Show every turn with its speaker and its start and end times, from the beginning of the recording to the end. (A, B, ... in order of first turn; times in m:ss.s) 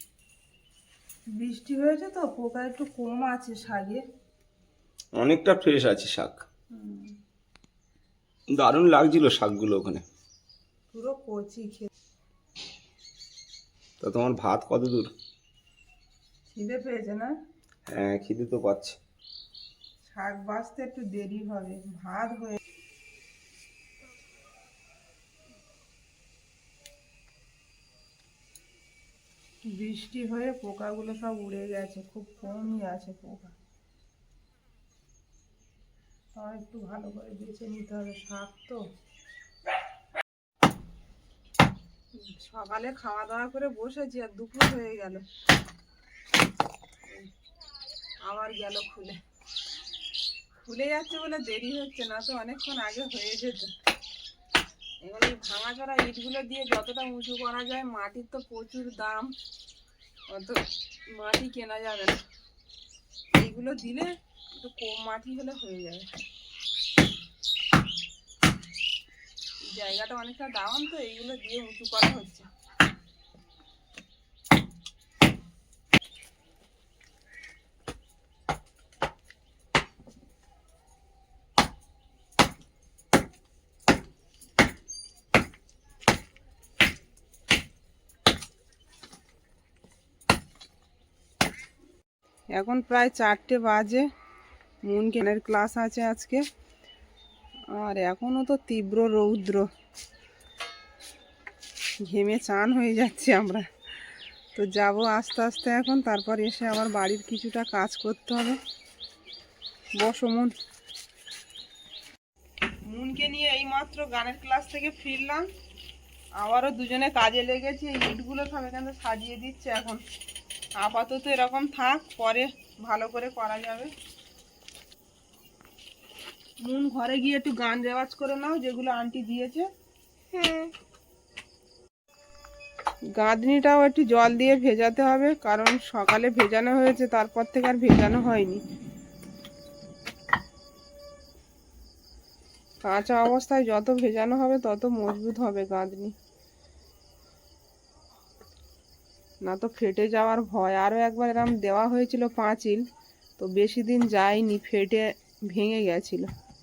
0:01.4-0:04.0 A
0:05.2-0:06.4 B
0:06.7-0:07.1 A
0:08.5-0:10.0 B
0:10.9-0:11.9 A
0:14.0-0:15.1 B
0:16.5-0:17.3 A
0:17.9-0:19.0 B
0:20.0-0:22.6 A
0:29.6-0:33.5 A
0:36.3-0:38.8 A
0:42.2-0:45.2 A
0:48.2-0:49.2 A
0:50.6-0:53.7 A
0:55.0-0:59.3 A
1:00.3-1:02.2 A
1:03.3-1:06.1 A
1:09.7-1:12.5 A
1:32.5-1:34.0 A
1:34.8-1:36.4 A
1:37.7-1:39.7 A
1:42.0-1:43.7 A
1:44.5-1:48.6 A
1:50.0-1:50.5 A
1:52.9-1:55.4 A
1:56.4-2:00.0 A
2:00.8-2:03.9 A
2:06.6-2:09.7 A
2:10.3-2:10.7 A
2:13.2-2:18.6 A
2:22.8-2:26.1 A
2:29.4-2:32.8 A
2:33.4-2:36.3 A